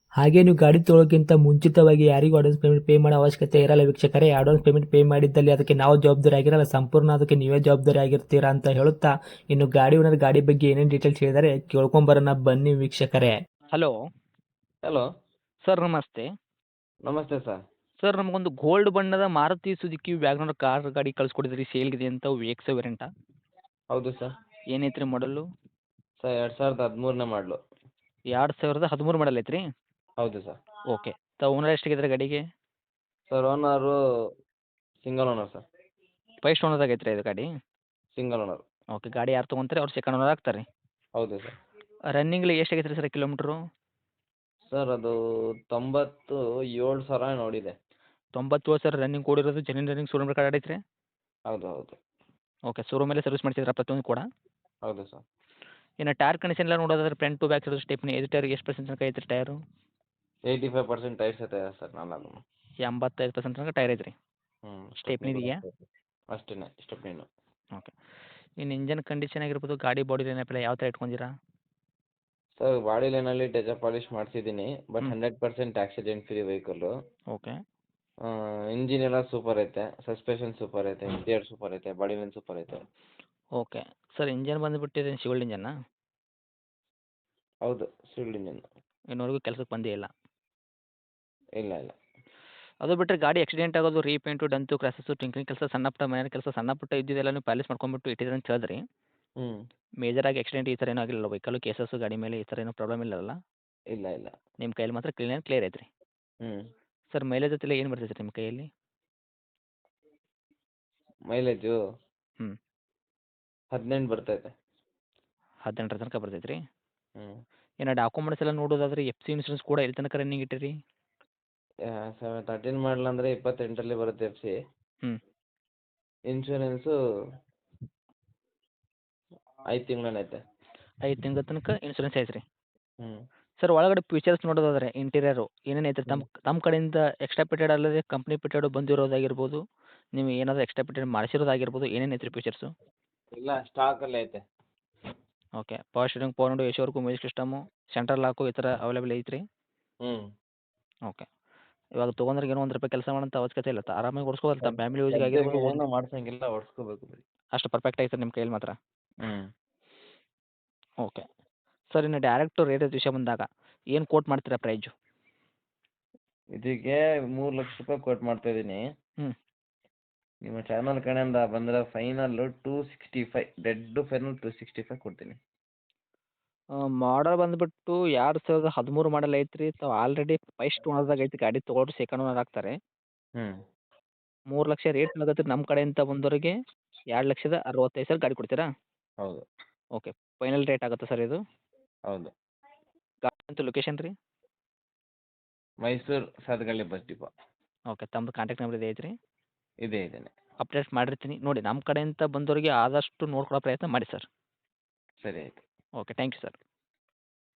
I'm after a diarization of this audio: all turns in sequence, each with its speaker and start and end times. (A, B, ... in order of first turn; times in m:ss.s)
0:00.2-0:13.3 A
0:15.7-0:16.3 B
0:17.1-0:17.6 C
0:18.0-0:23.1 B
0:23.9-0:24.3 C
0:24.7-0:25.4 B
0:26.2-0:27.6 C
0:28.3-0:29.6 B
0:30.2-0:30.6 C
0:30.9-0:32.4 B
0:33.3-0:34.0 C
0:35.0-0:35.6 C
0:36.4-0:37.5 B
0:38.2-0:38.6 C
0:39.0-0:40.6 B
0:41.2-0:41.5 C
0:42.1-0:43.6 B
0:44.7-0:45.2 C
0:45.7-0:47.7 C
0:48.4-0:50.8 B
0:51.5-0:52.0 C
0:52.7-0:54.2 B
0:54.9-0:55.2 C
0:56.0-0:59.6 B
1:00.5-1:02.4 C
1:02.9-1:04.1 B
1:04.7-1:05.8 C
1:05.0-1:05.6 B
1:06.3-1:07.3 C
1:08.6-1:11.3 B
1:12.6-1:16.9 C
1:18.3-1:22.8 C
1:23.6-1:25.7 B
1:27.7-1:28.6 C
1:29.1-1:30.1 B
1:31.6-1:32.0 C
1:32.8-1:38.8 B
1:40.0-1:43.4 B
1:43.9-1:44.3 C
1:44.6-1:45.9 B
1:47.1-1:48.7 B
1:51.3-1:51.8 C
1:53.7-1:54.5 C
1:55.7-1:56.6 B
1:57.8-2:00.7 B
2:01.9-2:04.6 C
2:06.3-2:06.9 C
2:09.7-2:10.4 C
2:11.0-2:12.4 B
2:13.6-2:19.6 B
2:20.2-2:22.7 B
2:23.4-2:24.4 C
2:25.6-2:29.4 B
2:32.0-2:35.8 B
2:34.6-2:37.2 C
2:37.6-2:38.8 B
2:41.9-2:43.4 B
2:44.0-2:44.9 B
2:46.6-2:48.8 C
2:50.5-2:55.4 C
2:57.0-3:02.8 B
3:04.5-3:06.5 B
3:07.2-3:08.7 B
3:10.0-3:11.4 B
3:13.2-3:14.1 B
3:15.8-3:17.3 C
3:17.9-3:19.1 B
3:19.8-3:20.3 C
3:20.6-3:24.2 B
3:25.2-3:25.6 C
3:26.0-3:26.6 B